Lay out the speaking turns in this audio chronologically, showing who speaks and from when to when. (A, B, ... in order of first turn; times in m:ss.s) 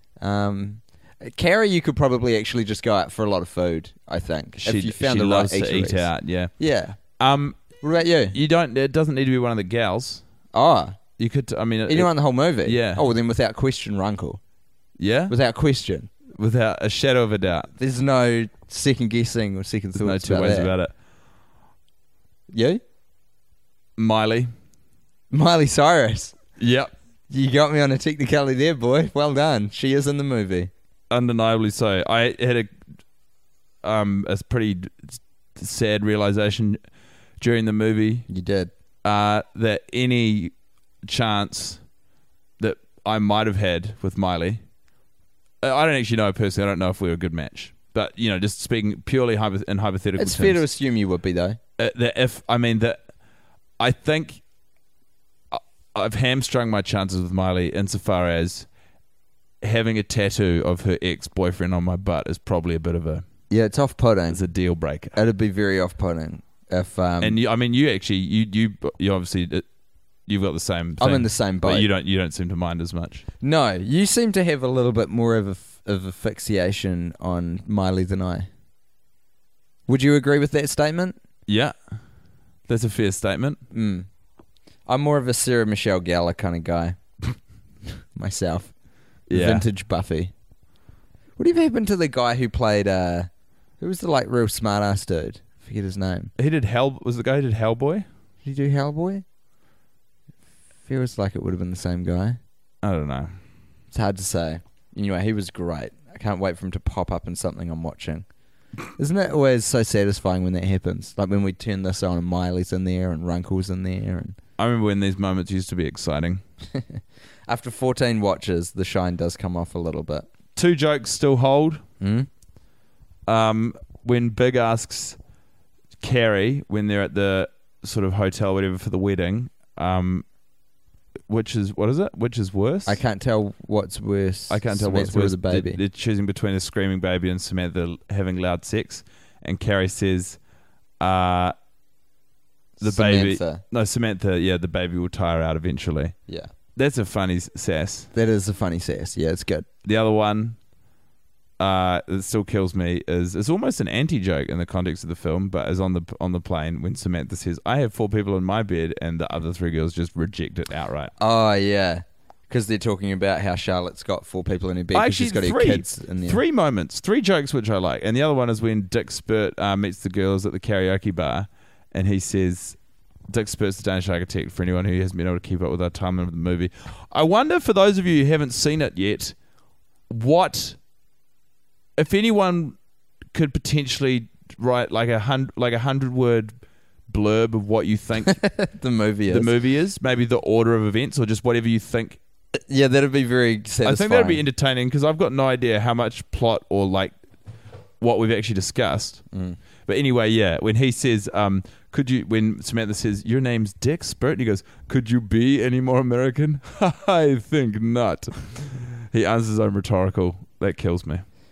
0:00.2-0:07.0 A
0:04.6-0:06.5 B
0:07.2-0:07.8 B
0:07.8-0:08.4 A
0:08.3-0:10.2 B
0:10.5-0:11.0 A
0:11.2-0:12.1 B
0:11.9-0:14.4 A
0:12.6-0:13.0 B
0:15.0-0:15.3 B
0:15.3-0:16.1 A
0:16.4-0:17.7 B
0:17.7-0:20.7 A
0:20.0-0:20.9 B
0:22.5-0:22.8 A
0:24.0-0:24.5 B
0:25.3-0:26.4 A
0:26.6-0:26.9 B
0:27.3-0:30.7 A
0:31.1-0:32.7 B
0:33.8-0:36.8 B
0:37.4-0:38.3 B
0:38.3-0:38.7 A
0:39.0-0:40.5 B
0:41.0-0:41.8 B
0:42.6-0:44.6 B
0:45.6-0:50.6 B
0:50.2-0:51.6 A
0:51.8-0:53.1 B
0:53.8-0:54.4 B
0:55.5-0:58.7 B
0:59.6-1:03.2 B
1:03.5-1:04.4 A
1:04.3-1:05.2 B
1:05.1-1:07.4 A
1:07.2-1:09.6 B
1:10.3-1:13.2 B
1:11.0-1:11.9 A
1:13.4-1:18.5 A
1:19.9-1:21.2 A
1:21.5-1:21.7 B
1:22.7-1:23.6 B
1:23.7-1:24.1 A
1:24.9-1:27.0 A
1:28.1-1:28.7 A
1:29.3-1:30.3 A
1:29.3-1:29.6 B
1:31.4-1:36.3 A
1:36.4-1:38.0 B
1:38.4-1:39.2 A
1:40.8-1:42.4 A
1:42.8-1:43.3 B
1:43.9-1:48.2 A
1:48.9-1:54.4 A
1:54.6-1:56.4 B
1:56.7-2:00.3 A
2:00.6-2:01.8 B
2:02.0-2:02.3 A
2:03.3-2:05.2 B
2:06.0-2:10.2 B
2:11.3-2:13.0 B
2:12.8-2:15.8 A
2:14.5-2:20.4 B
2:21.0-2:21.5 B
2:22.8-2:23.6 A
2:22.8-2:26.2 B
2:26.8-2:28.1 B
2:28.1-2:29.7 A
2:29.8-2:30.6 B
2:31.6-2:41.1 B
2:41.2-2:46.4 A
2:44.9-2:52.8 B
2:53.3-2:59.3 B
3:00.1-3:00.8 B
3:02.0-3:02.8 B
3:03.3-3:06.5 B
3:07.1-3:08.4 B
3:08.3-3:09.5 A
3:09.3-3:12.2 B
3:12.5-3:14.4 A
3:13.8-3:17.1 B
3:18.0-3:19.2 B
3:19.3-3:19.6 A
3:19.9-3:31.2 B